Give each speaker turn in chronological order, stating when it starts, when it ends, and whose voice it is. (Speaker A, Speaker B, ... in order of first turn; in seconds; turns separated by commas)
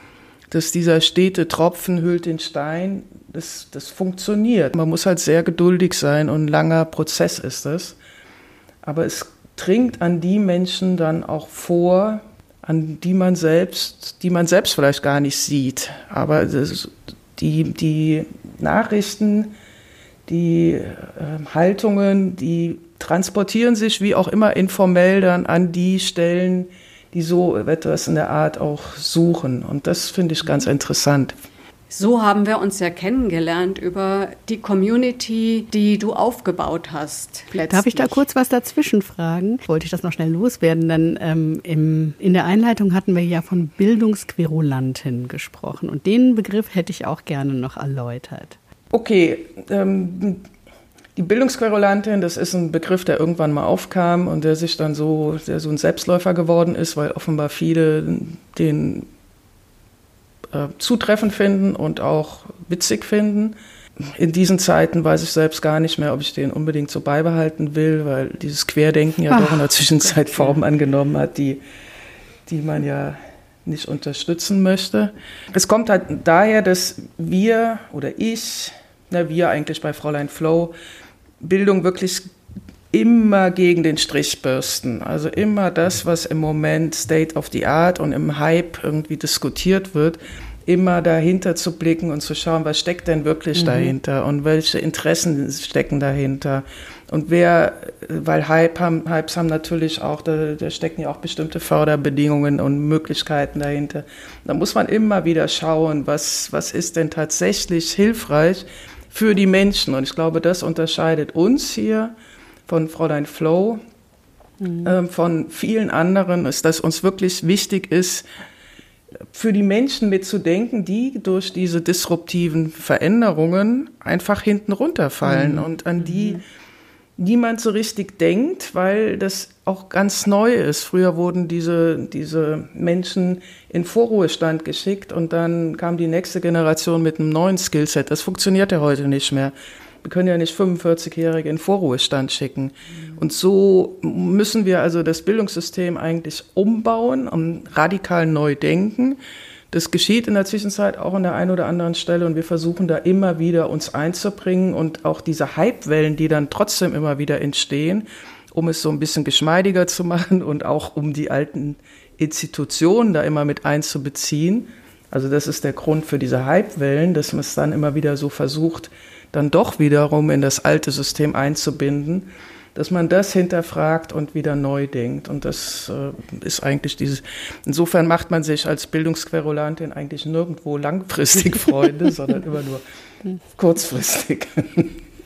Speaker A: 0.5-8.0, Speaker A: 8.8-19.5, Speaker A: 20.3-31.4, Speaker B: 31.9-38.2, Speaker C: 37.7-48.6, Speaker A: 48.9-50.4, Speaker A: 51.1-59.1, Speaker A: 60.5-63.5, Speaker A: 64.2-71.6, Speaker C: 69.3-70.3, Speaker A: 72.5-80.7, Speaker A: 81.4-82.3, Speaker A: 82.9-112.1, Speaker C: 93.6-93.9, Speaker A: 112.7-113.8, Speaker C: 114.6-114.9, Speaker A: 114.8-118.2, Speaker A: 119.3-126.4, Speaker C: 125.2-125.7, Speaker A: 127.2-149.2, Speaker A: 149.7-182.8, Speaker A: 183.6-185.0